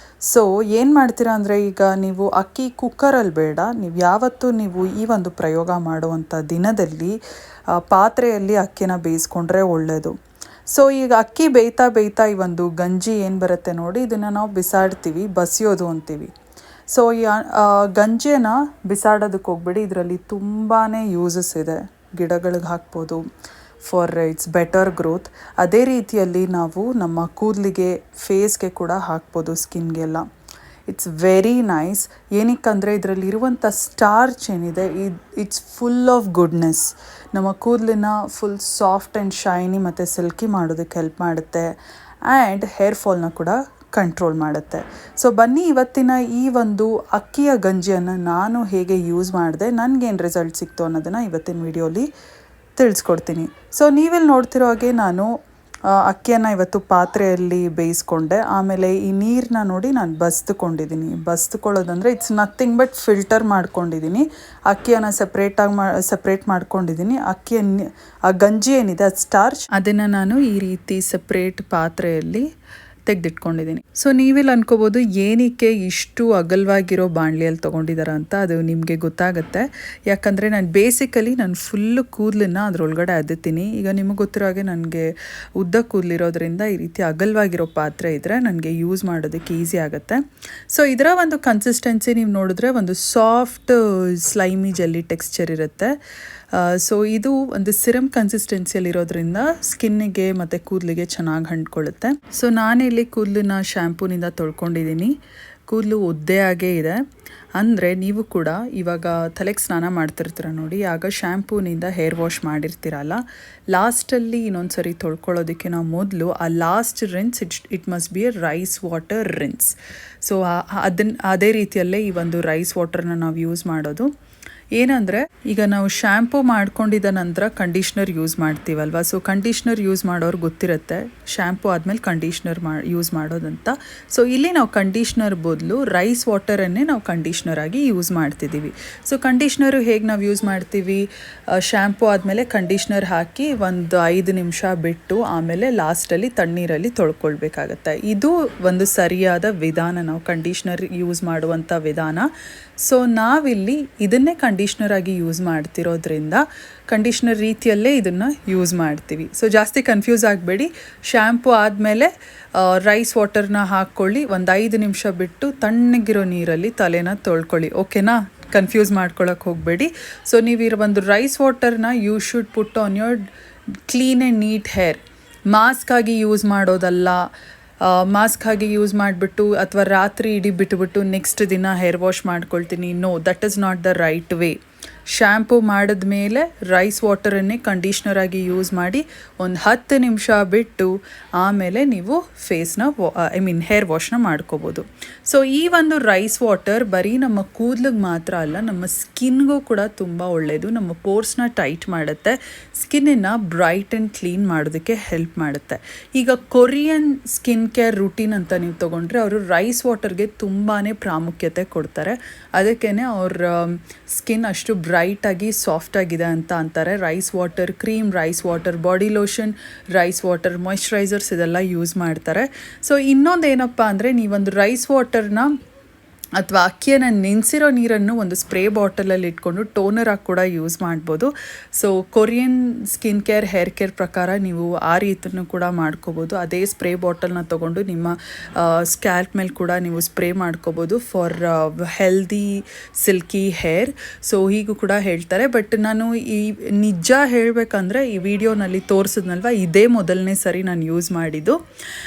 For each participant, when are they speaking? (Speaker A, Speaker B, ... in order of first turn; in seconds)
Speaker A: 0.3-7.2, 7.7-10.1, 10.7-16.3, 16.9-23.2, 23.8-30.2, 30.9-41.7, 42.2-52.1, 52.8-55.3, 55.9-72.4, 73.1-95.9, 96.5-105.1, 105.7-107.0, 107.6-113.2, 113.7-124.1, 124.7-152.3, 152.8-173.2, 173.9-177.2, 177.8-184.6, 185.1-225.5, 226.4-251.6